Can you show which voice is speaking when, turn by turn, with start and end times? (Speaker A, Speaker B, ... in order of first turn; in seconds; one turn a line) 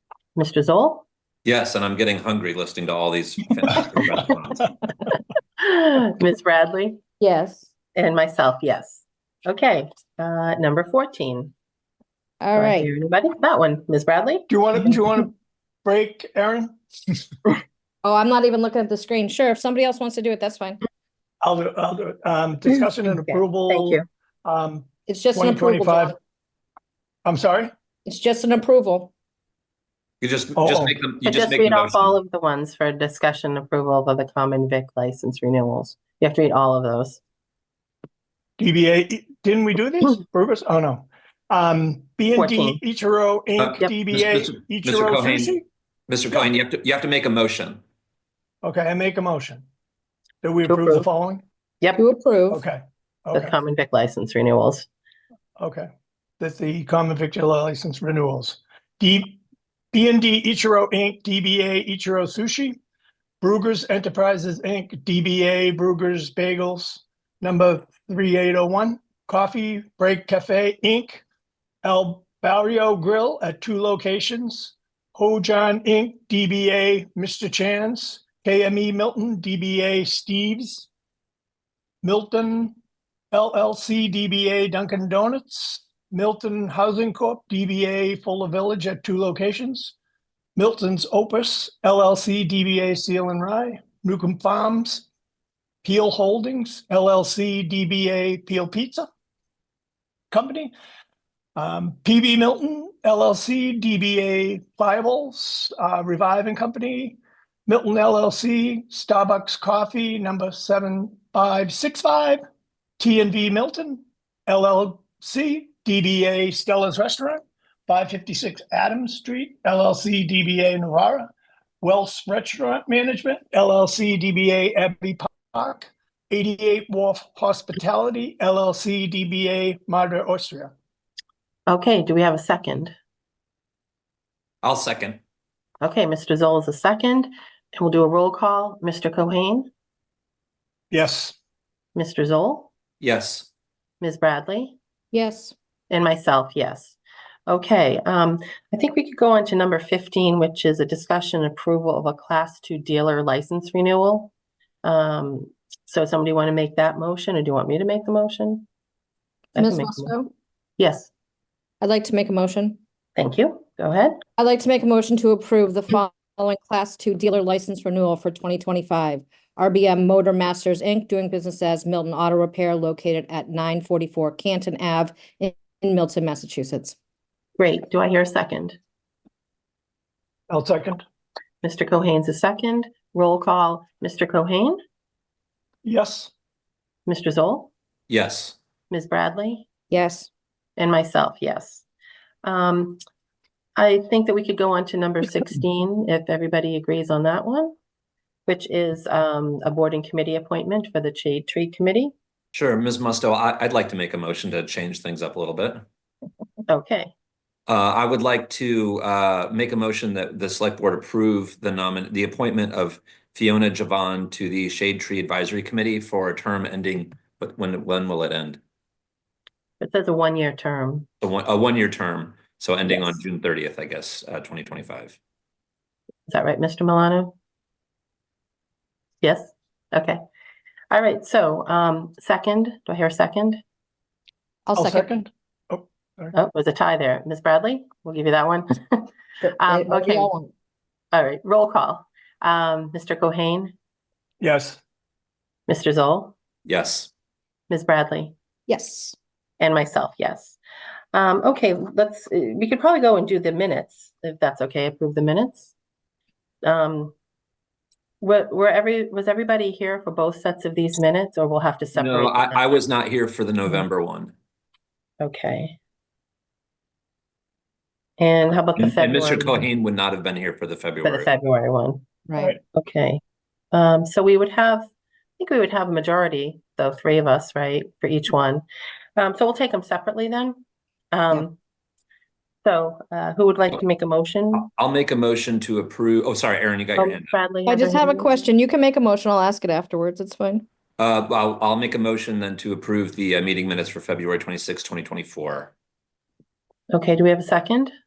Speaker A: 0.4-1.1
Speaker B: 1.4-4.7
Speaker A: 5.6-7.0
Speaker C: 7.2-7.7
Speaker A: 8.0-11.5
Speaker C: 12.4-12.9
Speaker A: 12.6-14.5
Speaker D: 14.5-16.8
Speaker C: 18.0-20.8
Speaker D: 21.4-26.2
Speaker A: 23.1-24.1
Speaker C: 25.1-26.2
Speaker D: 27.2-27.7
Speaker C: 28.1-29.1
Speaker B: 30.2-32.2
Speaker D: 30.6-30.9
Speaker A: 31.3-37.2
Speaker D: 38.6-45.6
Speaker A: 42.3-42.8
Speaker B: 43.6-45.6
Speaker B: 46.1-47.8
Speaker D: 48.6-49.6
Speaker D: 50.4-51.4
Speaker A: 50.7-51.1
Speaker A: 51.8-52.1
Speaker C: 52.0-52.6
Speaker D: 52.5-53.5
Speaker A: 53.3-54.9
Speaker D: 55.6-55.9
Speaker D: 56.4-59.4
Speaker D: 59.9-62.8
Speaker D: 63.4-71.2
Speaker D: 71.8-80.9
Speaker D: 82.0-82.7
Speaker D: 83.3-90.0
Speaker D: 90.6-95.1
Speaker D: 95.8-99.1
Speaker D: 100.3-100.7
Speaker D: 101.6-112.4
Speaker D: 113.0-121.3
Speaker D: 121.8-130.7
Speaker A: 131.7-132.9
Speaker B: 134.6-135.2
Speaker A: 135.8-139.7
Speaker D: 140.9-141.4
Speaker A: 141.9-142.7
Speaker B: 143.0-143.5
Speaker A: 144.0-144.8
Speaker C: 145.1-145.6
Speaker A: 145.9-154.3
Speaker A: 154.8-158.7
Speaker A: 159.6-160.1
Speaker C: 159.6-160.3
Speaker A: 160.8-161.1
Speaker C: 161.8-162.8
Speaker A: 163.2-164.2
Speaker C: 164.4-177.0
Speaker A: 177.6-178.8
Speaker D: 180.5-181.0
Speaker A: 181.6-184.8
Speaker D: 185.8-186.3
Speaker A: 187.1-187.7
Speaker B: 188.1-188.6
Speaker A: 188.9-189.7
Speaker C: 189.9-190.3
Speaker A: 190.8-191.8
Speaker A: 192.4-193.0
Speaker A: 193.8-197.8
Speaker A: 198.5-202.2
Speaker B: 202.5-205.8
Speaker A: 206.7-207.1
Speaker B: 207.7-218.6
Speaker A: 219.8-221.1
Speaker B: 221.2-225.2
Speaker A: 222.9-223.2
Speaker A: 226.3-227.3
Speaker A: 229.2-230.2
Speaker A: 230.9-233.6
Speaker C: 234.7-235.1
Speaker D: 234.8-236.3
Speaker A: 236.3-240.3
Speaker C: 239.4-240.5
Speaker A: 241.1-243.8
Speaker D: 244.4-244.8
Speaker A: 245.7-246.3
Speaker B: 246.7-247.1
Speaker A: 247.7-248.3
Speaker C: 248.7-249.2
Speaker A: 249.6-250.6
Speaker A: 251.1-255.7
Speaker A: 256.6-257.1
Speaker A: 258.2-262.8
Speaker B: 261.9-264.3
Speaker A: 265.2-265.8
Speaker A: 268.2-269.6
Speaker B: 268.8-271.3
Speaker A: 271.0-272.1
Speaker C: 272.3-272.6
Speaker A: 272.7-273.2
Speaker A: 273.7-278.6
Speaker A: 279.2-281.6
Speaker A: 282.6-284.7
Speaker B: 284.5-287.4
Speaker A: 287.0-288.5
Speaker C: 287.7-290.6
Speaker B: 291.0-295.7
Speaker A: 296.9-297.9